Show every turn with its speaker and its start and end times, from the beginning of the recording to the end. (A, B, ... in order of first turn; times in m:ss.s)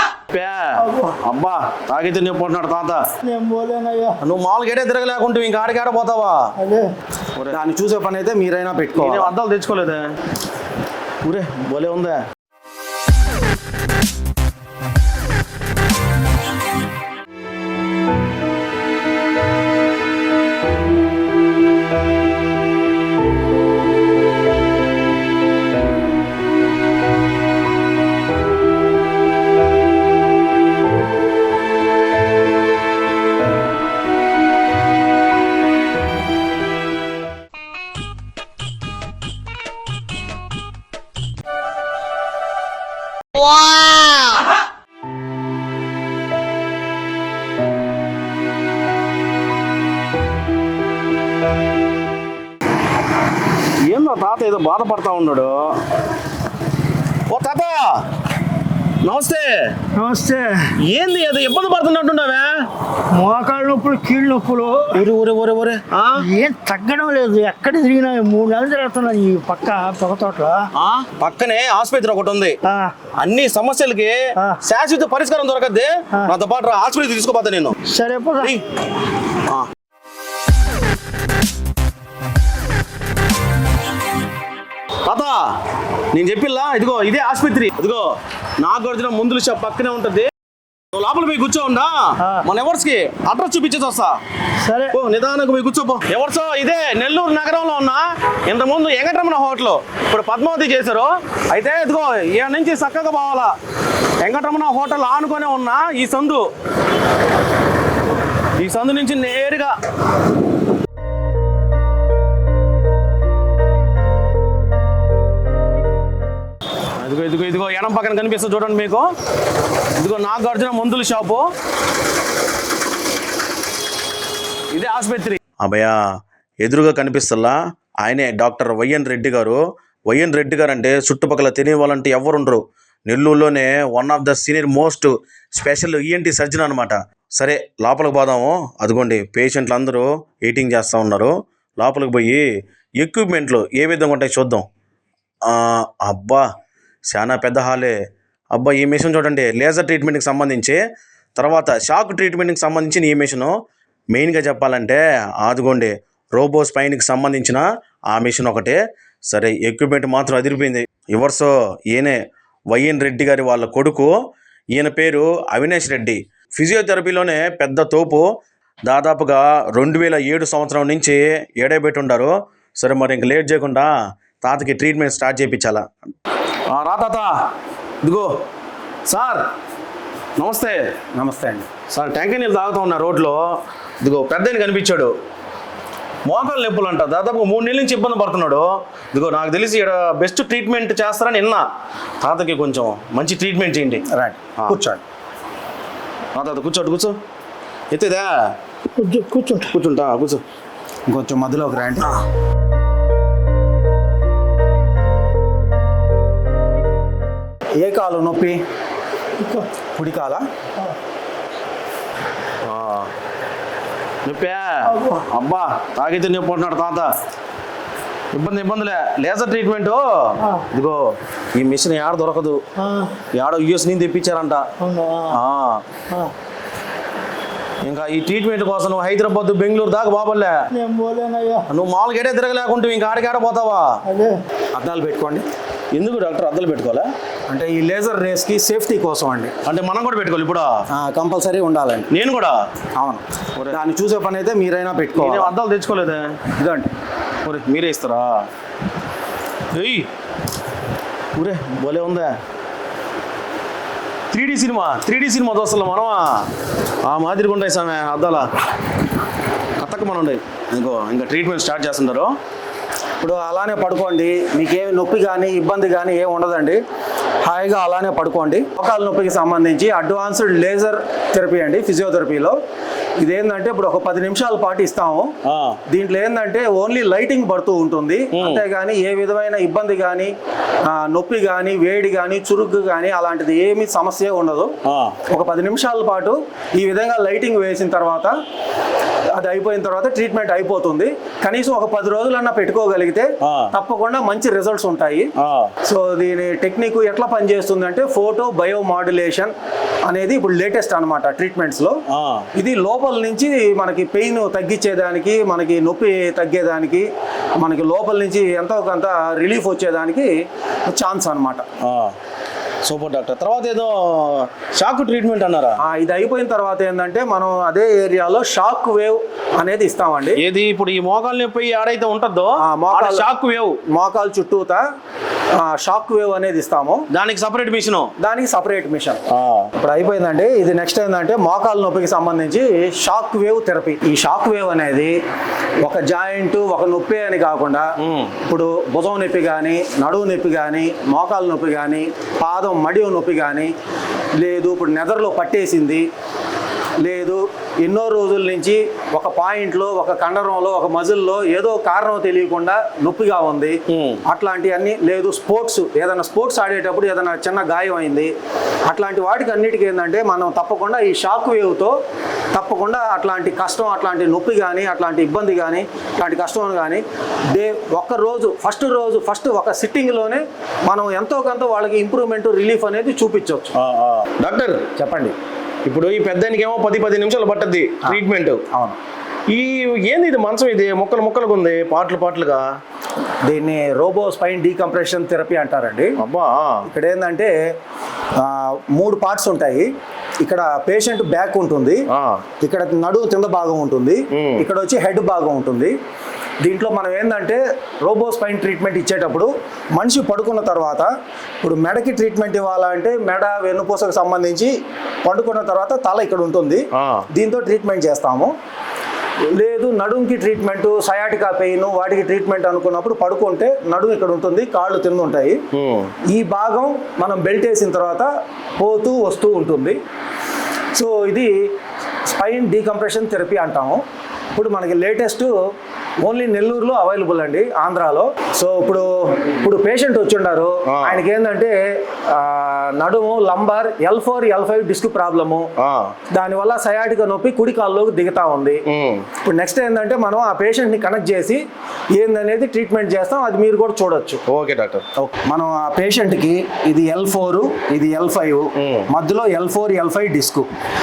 0:00.3-0:03.0 A
0:00.8-0:01.1 B
0:03.2-0:04.2 B
0:04.2-0:06.4 A
0:06.6-0:06.9 B
0:07.5-0:09.3 C
0:09.0-0:10.1 A
0:11.2-0:12.2 A
0:53.9-0:55.8 A
0:57.3-0:58.0 A
0:59.0-0:59.7 A
0:59.9-1:00.7 B
1:00.8-1:02.7 A
1:03.1-1:05.0 B
1:04.9-1:06.2 A
1:06.2-1:10.7 B
1:10.8-1:12.6 A
1:12.6-1:12.9 B
1:13.2-1:17.8 A
1:17.9-1:18.6 B
1:19.3-1:19.7 A
1:25.0-1:25.4 A
1:26.1-1:30.3 A
1:30.9-1:34.2 A
1:32.2-1:32.4 B
1:34.6-1:34.9 B
1:34.9-1:43.5 A
1:44.2-1:46.4 A
1:48.6-1:49.7 A
1:57.0-1:59.0 A
1:59.9-2:01.4 A
2:04.7-2:06.0 A
2:06.6-2:22.4 A
2:23.0-2:24.6 A
2:25.4-2:26.4 A
2:27.1-2:27.9 A
2:28.5-2:30.8 A
2:31.4-2:33.5 A
2:34.1-2:42.2 A
2:42.7-2:44.1 A
2:44.7-2:48.2 A
2:48.9-2:55.8 A
2:56.7-2:57.3 A
2:58.0-2:58.3 A
2:59.1-2:59.4 A
3:00.4-3:00.8 A
3:01.2-3:01.7 C
3:01.9-3:03.4 A
3:04.0-3:05.1 A
3:06.2-3:11.6 A
3:12.2-3:14.0 A
3:14.1-3:15.0 C
3:16.3-3:17.2 A
3:17.9-3:18.3 A
3:19.0-3:19.7 B
3:19.7-3:20.4 A
3:21.1-3:22.1 C
3:27.8-3:28.6 C
3:29.4-3:29.7 B
3:29.9-3:30.4 C
3:32.6-3:33.1 A
3:34.2-3:37.1 A
3:34.9-3:35.2 B
3:38.3-3:42.6 A
3:42.8-3:43.1 B
3:43.3-3:44.7 A
3:44.8-3:45.4 B
3:45.3-3:45.8 A
3:47.8-3:50.6 A
3:50.7-3:51.7 B
3:51.7-3:54.0 A
3:54.0-3:54.4 B
3:54.7-3:55.4 C
3:55.9-3:57.1 A
3:57.5-3:59.5 C
3:59.6-4:00.8 A
4:00.9-4:02.1 C
4:02.1-4:02.6 A
4:03.0-4:05.5 C
4:05.2-4:06.4 A
4:06.6-4:06.9 C
4:07.4-4:08.4 A
4:09.7-4:10.1 A
4:11.4-4:12.3 A
4:14.3-4:16.5 A
4:17.0-4:18.5 A
4:19.8-4:22.3 A
4:23.2-4:26.8 C
4:27.4-4:32.5 C
4:33.2-4:35.3 C
4:35.4-4:35.8 A
4:35.9-4:40.3 C
4:38.3-4:38.6 A
4:40.8-4:44.7 C
4:44.8-4:45.2 A
4:45.3-4:48.3 C
4:49.3-4:55.3 C
4:53.4-4:53.7 A
4:55.4-4:55.7 A
4:55.8-4:59.5 C
5:00.0-5:02.0 C
5:02.1-5:02.5 A
5:02.5-5:07.1 C
5:07.6-5:10.3 C
5:10.9-5:11.6 C
5:11.8-5:12.1 A
5:12.8-5:15.8 A
5:15.8-5:20.4 C
5:20.4-5:23.8 A
5:22.6-5:23.3 C
5:23.8-5:24.8 C
5:25.6-5:27.0 C
5:27.1-5:28.1 A
5:28.2-5:29.2 C
5:29.3-5:29.7 A
5:29.8-5:35.1 C
5:35.8-5:37.8 C
5:38.0-5:38.3 A
5:38.4-5:43.7 C
5:44.4-5:46.0 C
5:47.0-5:58.3 C
5:53.9-5:54.2 A
5:58.9-6:01.9 C
6:02.5-6:13.7 C
6:13.8-6:14.9 A
6:14.9-6:15.3 C
6:15.8-6:18.6 A
6:18.0-6:19.0 C
6:19.5-6:22.6 A
6:23.4-6:26.1 C
6:26.2-6:26.9 A
6:26.8-6:27.5 C
6:28.4-6:29.9 C
6:30.4-6:32.0 C
6:32.1-6:32.4 A
6:32.6-6:35.9 C
6:34.3-6:34.6 A
6:36.6-6:41.1 C
6:41.6-6:44.7 C
6:45.2-6:48.5 C
6:47.0-6:47.2 A
6:49.6-6:55.6 C
6:55.7-6:56.1 A
6:56.3-6:58.3 C
6:58.8-7:00.0 C
7:00.9-7:01.5 C
7:02.3-7:04.0 C
7:04.5-7:05.5 C
7:06.2-7:15.7 C
7:10.9-7:11.2 A
7:15.8-7:16.1 A
7:16.3-7:18.8 C
7:18.9-7:19.2 A
7:19.4-7:21.6 C
7:22.1-7:24.4 C
7:24.5-7:25.0 A
7:25.2-7:30.6 C
7:28.8-7:29.0 A